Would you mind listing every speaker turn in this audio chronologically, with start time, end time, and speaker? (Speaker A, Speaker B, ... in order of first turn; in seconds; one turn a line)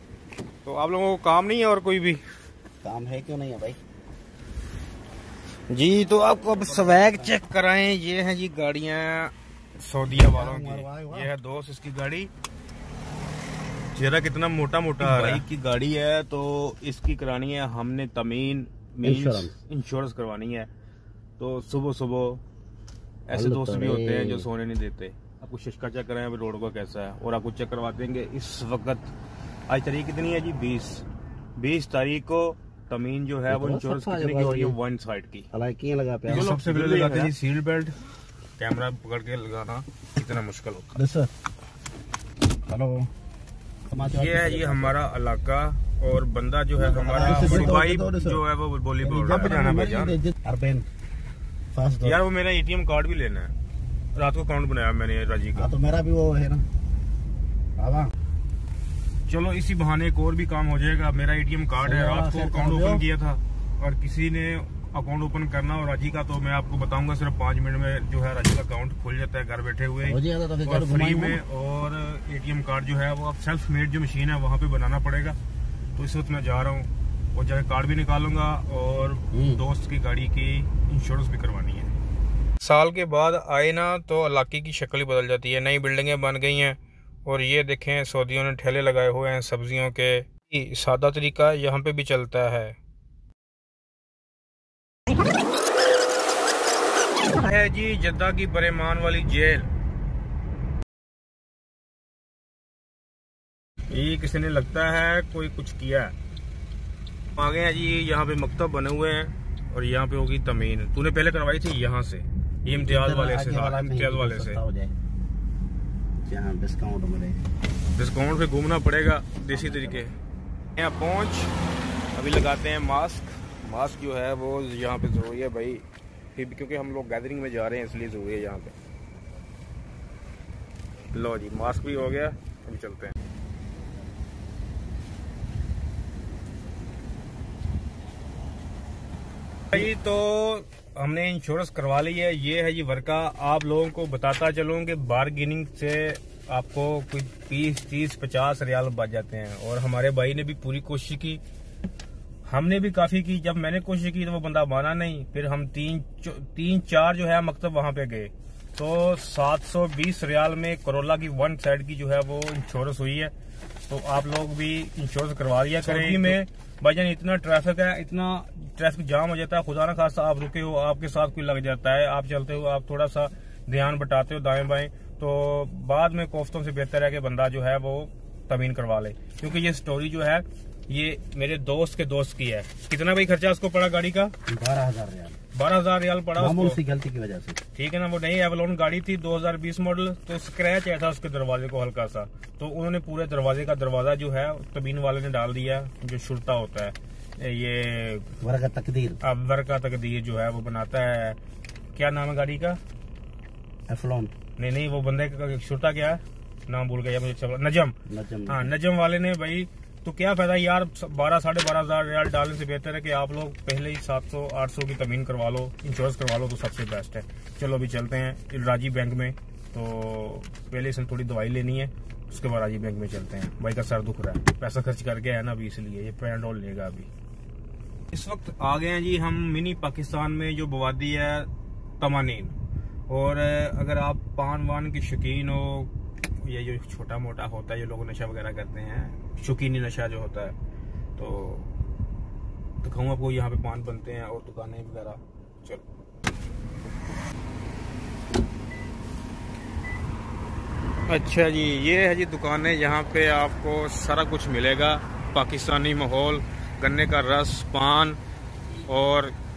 Speaker A: 0.6-2.2
Speaker B: 2.8-3.8
Speaker A: 5.7-12.3
Speaker B: 6.4-7.4
Speaker B: 10.2-11.3
Speaker A: 13.9-20.7
Speaker B: 15.0-15.4
Speaker B: 19.0-19.5
Speaker A: 21.4-22.4
Speaker A: 23.3-29.1
Speaker B: 23.3-24.5
Speaker A: 29.7-31.0
Speaker A: 31.6-35.5
Speaker B: 33.5-34.8
Speaker B: 35.5-37.3
Speaker A: 36.3-37.9
Speaker A: 38.6-41.0
Speaker B: 41.0-41.3
Speaker B: 42.7-43.1
Speaker B: 43.9-45.0
Speaker A: 44.1-50.2
Speaker B: 46.8-48.4
Speaker B: 49.0-50.9
Speaker B: 51.7-52.2
Speaker A: 52.0-53.5
Speaker A: 54.1-55.7
Speaker B: 55.5-56.7
Speaker B: 57.8-58.1
Speaker A: 59.3-75.4
Speaker B: 61.8-63.0
Speaker B: 70.0-71.4
Speaker A: 76.0-81.9
Speaker B: 79.3-79.6
Speaker A: 82.6-92.8
Speaker A: 97.3-99.7
Speaker A: 103.9-106.1
Speaker A: 107.3-114.6
Speaker B: 112.7-114.9
Speaker B: 116.2-117.4
Speaker A: 118.0-120.2
Speaker B: 119.5-120.1
Speaker A: 120.8-121.5
Speaker A: 122.1-125.8
Speaker A: 126.3-128.7
Speaker A: 131.1-133.1
Speaker A: 139.7-151.4
Speaker A: 152.5-163.3
Speaker A: 163.9-184.3
Speaker B: 165.8-166.4
Speaker B: 184.5-185.4
Speaker A: 185.5-186.8
Speaker B: 186.3-187.6
Speaker A: 187.7-198.3
Speaker B: 198.4-199.2
Speaker A: 199.2-201.4
Speaker A: 201.9-202.8
Speaker B: 203.9-204.3
Speaker A: 204.6-227.1
Speaker B: 208.1-208.7
Speaker A: 228.1-231.5
Speaker A: 232.0-232.5
Speaker A: 233.1-235.9
Speaker A: 236.4-240.5
Speaker A: 241.2-241.7
Speaker A: 242.8-245.8
Speaker A: 251.1-258.2
Speaker A: 258.9-259.3